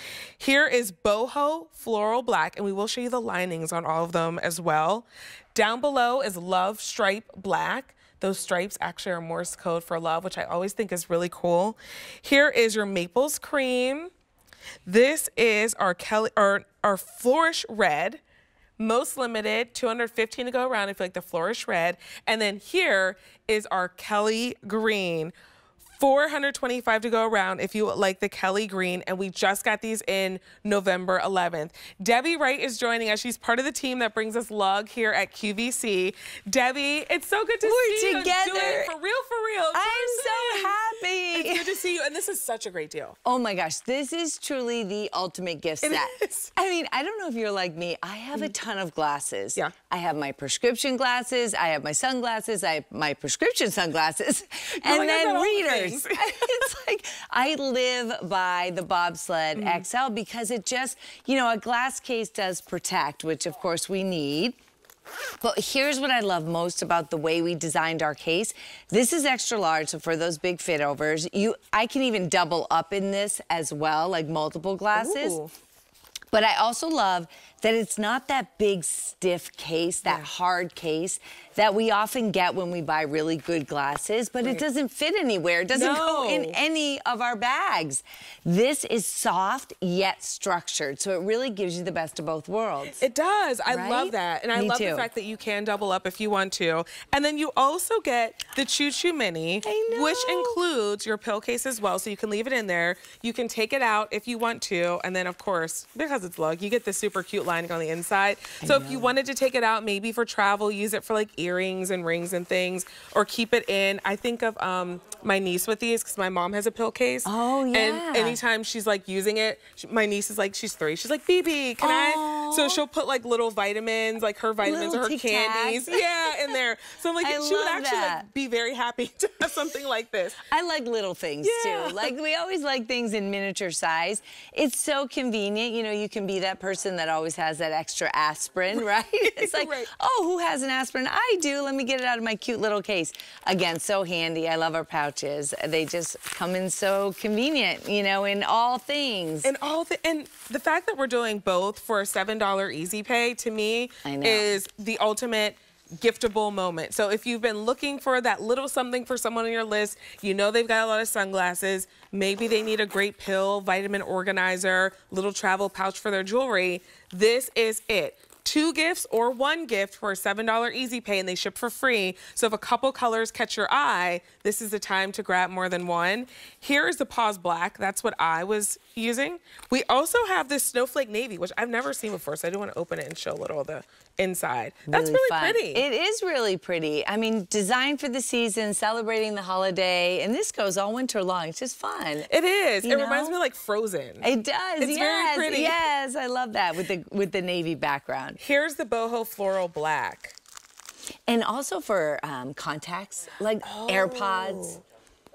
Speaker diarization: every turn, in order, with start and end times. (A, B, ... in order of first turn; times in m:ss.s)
0:00.4-0:14.1 A
0:14.9-0:18.2 A
0:18.8-0:25.3 A
0:26.0-0:40.8 A
0:37.6-0:38.9 B
0:39.7-0:41.8 B
0:41.3-0:43.2 A
0:43.2-1:04.6 B
0:45.8-0:46.5 A
0:54.8-0:56.7 A
0:59.6-0:59.9 A
1:05.4-1:15.4 B
1:14.9-1:15.5 A
1:16.3-1:33.0 B
1:25.7-1:26.6 A
1:33.0-2:10.4 A
1:33.7-1:35.1 B
1:39.6-1:40.6 B
1:48.6-1:49.1 B
1:57.2-1:58.4 B
2:01.8-2:02.8 B
2:04.6-2:06.6 B
2:07.2-2:08.3 B
2:10.5-2:29.5 B
2:11.4-2:12.1 A
2:18.7-2:19.9 A
2:29.4-3:05.8 A
2:34.0-2:34.6 B
3:04.9-3:12.3 B
3:12.3-3:14.3 A
3:12.8-3:13.4 B
3:14.2-3:18.4 B
3:14.8-3:15.8 A
3:18.4-3:20.4 A
3:21.3-3:24.8 B
3:23.6-3:24.8 A